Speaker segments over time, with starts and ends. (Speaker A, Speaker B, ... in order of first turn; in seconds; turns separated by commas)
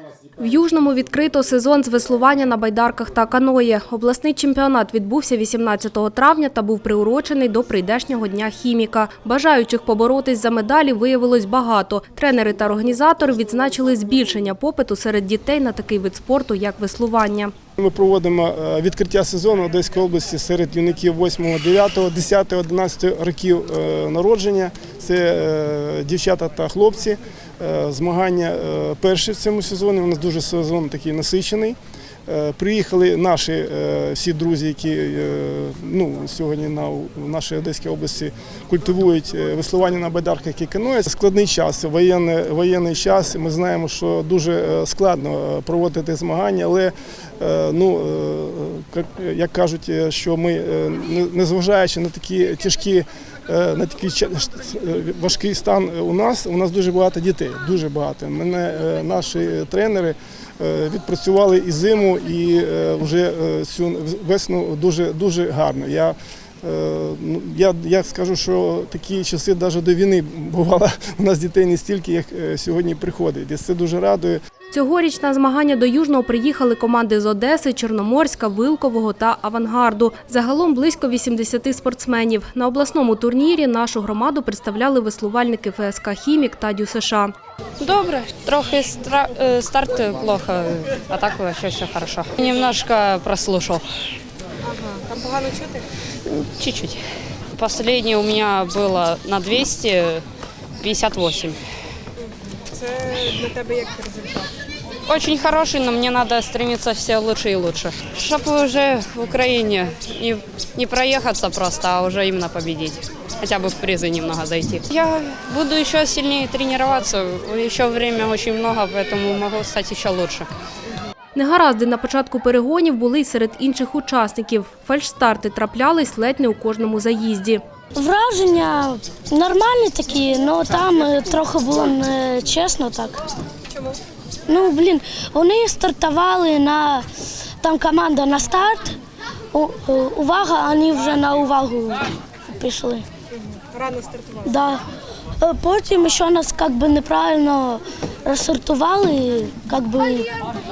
Speaker A: 0.4-17.5, Speaker B: 17.8-74.4, Speaker A: 74.7-87.3, Speaker C: 87.8-93.8, Speaker D: 94.7-95.8, Speaker C: 96.3-97.0, Speaker C: 97.6-100.2, Speaker C: 100.8-101.6, Speaker D: 102.2-104.5, Speaker C: 105.1-120.5, Speaker A: 121.3-127.6, Speaker E: 128.0-133.2, Speaker E: 134.5-137.1, Speaker E: 137.6-139.0, Speaker E: 139.5-142.0, Speaker E: 142.6-143.1, Speaker D: 143.7-144.4, Speaker E: 144.4-144.8, Speaker E: 145.4-150.2